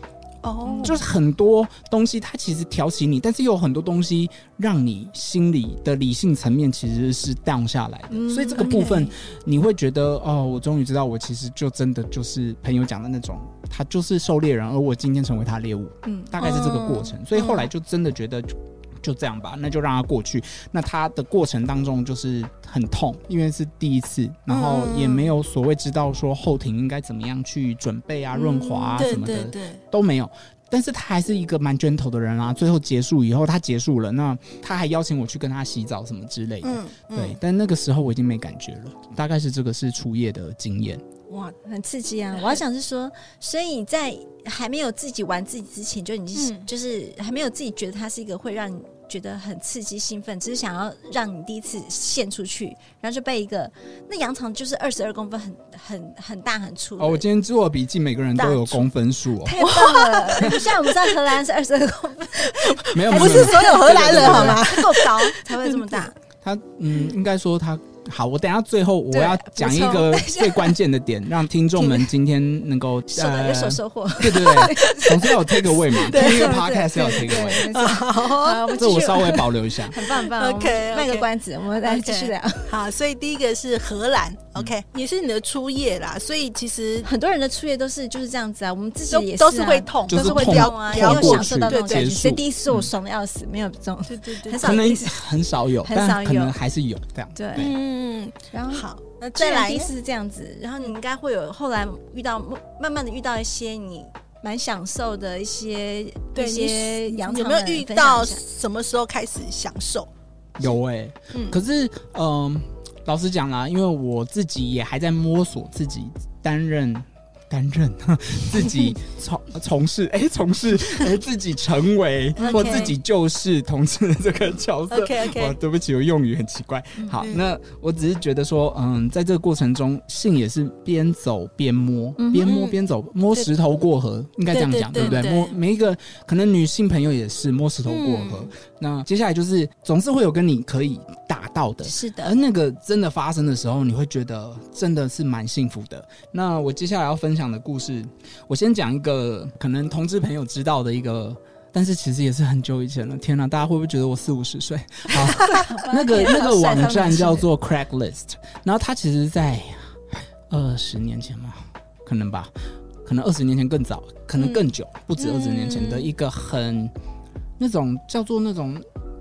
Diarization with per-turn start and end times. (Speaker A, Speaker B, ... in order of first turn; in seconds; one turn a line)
Speaker A: 0.4-1.0
Speaker B: 0.6-1.0
Speaker C: 0.8-41.0
Speaker B: 8.1-9.1
Speaker A: 8.6-9.1
Speaker B: 16.1-16.3
Speaker A: 16.4-17.7
Speaker A: 24.5-25.3
Speaker B: 28.3-29.1
Speaker A: 28.9-29.8
Speaker A: 36.6-37.4
Speaker A: 41.3-41.6
Speaker B: 41.6-57.2
Speaker A: 42.3-42.6
Speaker A: 46.3-46.7
Speaker C: 57.0-59.5
Speaker B: 58.4-58.9
Speaker B: 59.4-66.2
Speaker A: 59.6-61.2
Speaker A: 62.4-66.1
Speaker C: 62.9-64.7
Speaker C: 66.4-77.7
Speaker B: 69.1-70.7
Speaker B: 73.1-82.8
Speaker A: 74.4-79.4
Speaker C: 78.8-80.0
Speaker A: 80.0-81.3
Speaker A: 81.8-87.1
Speaker B: 87.0-95.2
Speaker A: 89.1-92.1
Speaker C: 90.1-92.9
Speaker A: 94.1-94.8
Speaker C: 94.6-97.7
Speaker B: 95.8-96.5
Speaker B: 97.3-97.8
Speaker A: 97.5-99.9
Speaker B: 98.5-108.4
Speaker A: 106.3-110.1
Speaker C: 110.5-160.0
Speaker A: 111.3-111.6
Speaker A: 122.4-122.9
Speaker B: 122.4-122.9
Speaker A: 124.9-125.6
Speaker B: 132.2-132.6
Speaker A: 132.4-132.7
Speaker A: 134.5-135.5
Speaker B: 134.9-135.3
Speaker A: 137.9-138.5
Speaker B: 141.8-142.3
Speaker B: 155.4-157.4
Speaker C: 160.5-162.5
Speaker C: 163.0-166.9
Speaker A: 164.4-164.7
Speaker A: 165.2-166.0
Speaker C: 167.6-168.8